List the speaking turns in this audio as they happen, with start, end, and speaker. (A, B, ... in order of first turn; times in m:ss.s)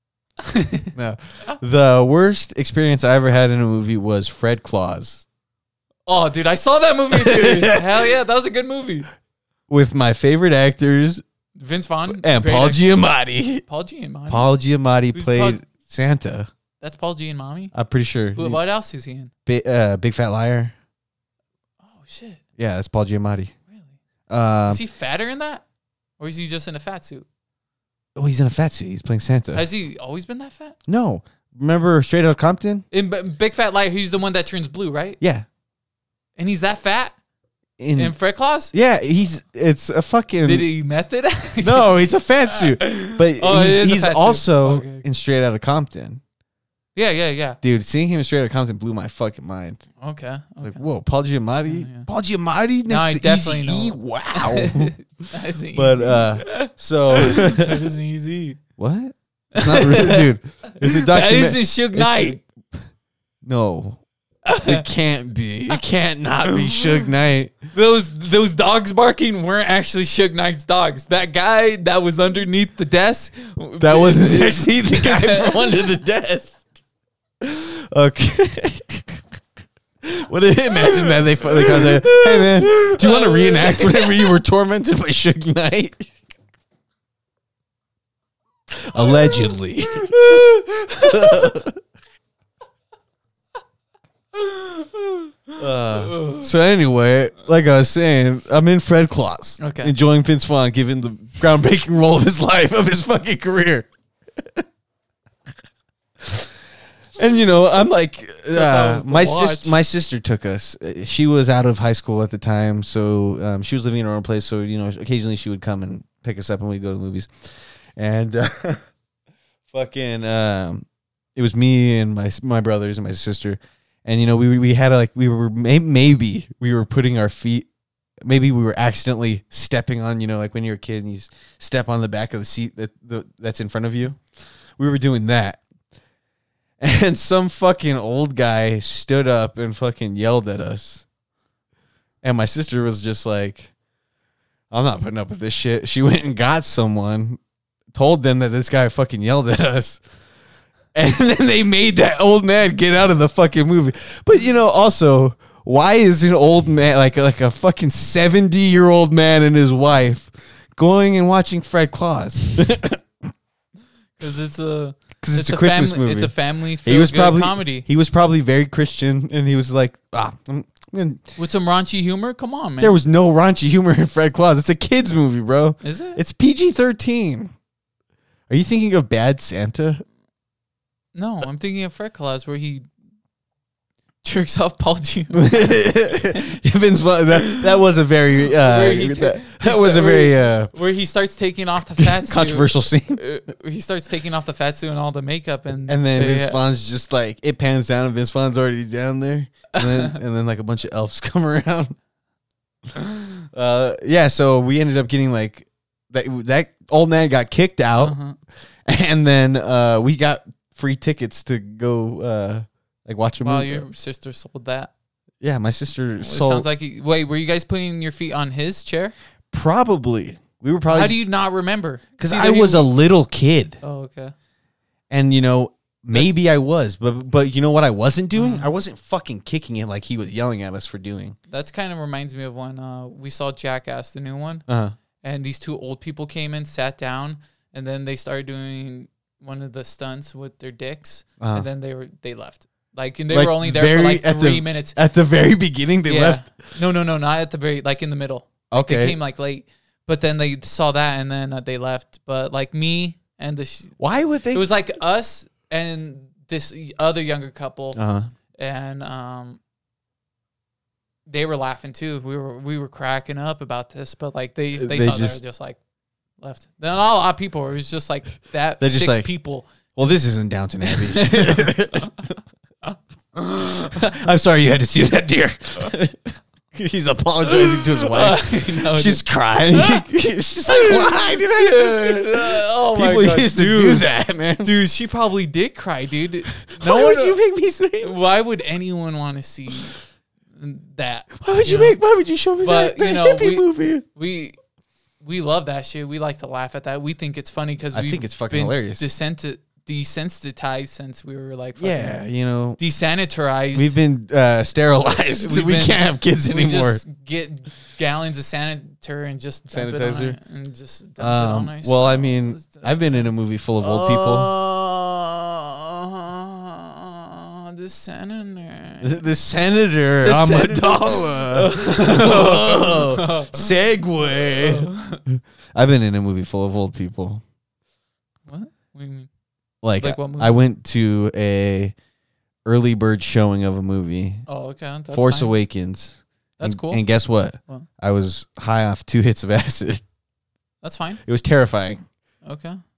0:00.4-0:00.9 A
0:01.0-0:05.3 B
0:06.1-0:09.1 A
0:07.1-0:07.8 B
0:09.7-0:11.2 B
0:11.6-0:12.9 A
0:12.1-0:13.6 B
0:13.7-0:14.4 A
0:14.3-0:16.5 B
0:15.1-0:15.6 A
0:16.8-0:17.7 A
0:17.7-0:18.6 B
0:18.4-0:19.3 A
0:19.5-0:20.7 B
0:21.8-0:22.4 A
0:22.6-0:23.5 B
0:23.7-0:24.0 A
0:24.3-0:24.8 B
0:24.7-0:25.6 A
0:26.2-0:27.3 A
0:28.2-0:29.7 B
0:29.5-0:30.8 A
0:30.9-0:32.8 B
0:32.9-0:35.2 A
0:35.2-0:35.5 B
0:36.4-0:37.2 A
0:37.8-0:40.7 B
0:38.0-0:38.7 A
0:40.4-0:45.0 A
0:41.6-0:46.2 B
0:47.0-0:47.6 A
0:47.6-0:49.9 B
0:50.0-0:50.8 A
0:50.6-0:55.0 B
0:51.6-0:52.1 A
0:52.9-0:58.6 A
0:55.7-0:57.8 B
0:58.8-1:02.8 B
0:59.6-1:00.3 A
1:00.8-1:02.4 A
1:03.4-1:04.0 B
1:04.5-1:04.8 A
1:04.6-1:07.6 B
1:06.5-1:07.0 A
1:07.7-1:15.9 A
1:13.8-1:16.6 B
1:17.4-1:19.2 B
1:20.0-1:26.2 B
1:20.8-1:24.3 A
1:28.7-1:31.8 B
1:29.9-1:31.5 A
1:34.3-1:36.5 A
1:35.6-1:44.6 B
1:39.6-1:40.0 A
1:46.2-1:46.5 B
1:47.2-1:58.8 B
1:48.5-1:49.8 A
1:59.7-2:07.7 B
2:08.2-2:14.2 B
2:14.8-2:15.6 B
2:16.8-2:21.0 B
2:22.2-2:23.7 B
2:24.7-2:27.4 B
2:27.9-2:30.0 B
2:30.9-2:43.0 B
2:44.2-2:47.9 A
2:45.2-2:51.2 B
2:51.4-2:53.0 A
2:52.8-2:57.5 B
2:55.8-2:56.2 A
2:58.5-3:00.0 B
3:01.2-3:02.9 A
3:04.2-3:05.8 A
3:05.3-3:10.7 B
3:08.5-3:16.6 A
3:12.0-3:13.2 B
3:15.9-3:22.0 B
3:19.8-3:20.2 A
3:23.5-3:28.2 B
3:28.0-3:28.4 A
3:28.9-3:33.9 B
3:33.4-3:34.9 A
3:35.4-3:36.7 B
3:36.2-3:39.1 A
3:39.5-3:41.2 B
3:40.9-3:42.9 A
3:42.2-3:43.8 B
3:43.8-3:44.3 A
3:45.1-3:51.4 B
3:48.3-3:48.7 A
3:51.5-3:54.6 A
3:54.7-3:55.0 B
3:55.2-4:05.0 A
4:01.4-4:01.7 B
4:03.3-4:06.5 B
4:06.1-4:14.0 A
4:08.7-4:09.2 B
4:14.0-4:14.7 B
4:14.5-4:18.0 A
4:18.0-4:18.3 B
4:18.6-4:19.6 A
4:21.3-4:25.8 A
4:24.8-4:25.4 B
4:26.4-4:29.9 A
4:28.8-4:29.3 B
4:30.0-4:32.3 B
4:30.9-4:32.2 A
4:32.9-4:34.0 A
4:33.9-4:44.7 B
4:37.5-4:40.0 A
4:40.7-4:44.1 A
4:44.6-4:47.4 A
4:46.6-4:48.2 B
4:48.0-4:50.0 A
4:50.6-4:52.0 A
4:51.4-4:54.0 B
4:52.6-4:54.6 A
4:55.2-5:02.2 A
4:57.9-4:59.1 B
5:01.8-5:02.8 B
5:02.8-5:04.0 A
5:03.7-5:07.0 B
5:05.4-5:13.3 A
5:09.7-5:10.4 B
5:11.2-5:14.5 B
5:13.8-5:19.2 A
5:19.0-5:27.4 B
5:20.2-5:23.7 A
5:24.6-5:25.2 A
5:28.5-5:29.3 A
5:29.8-5:32.0 B
5:30.0-5:30.6 A
5:32.6-5:34.4 B
5:34.5-5:35.6 A
5:35.1-5:40.0 B
5:36.6-5:37.0 A
5:40.8-5:41.2 A
5:41.2-5:42.0 B
5:42.4-5:42.8 A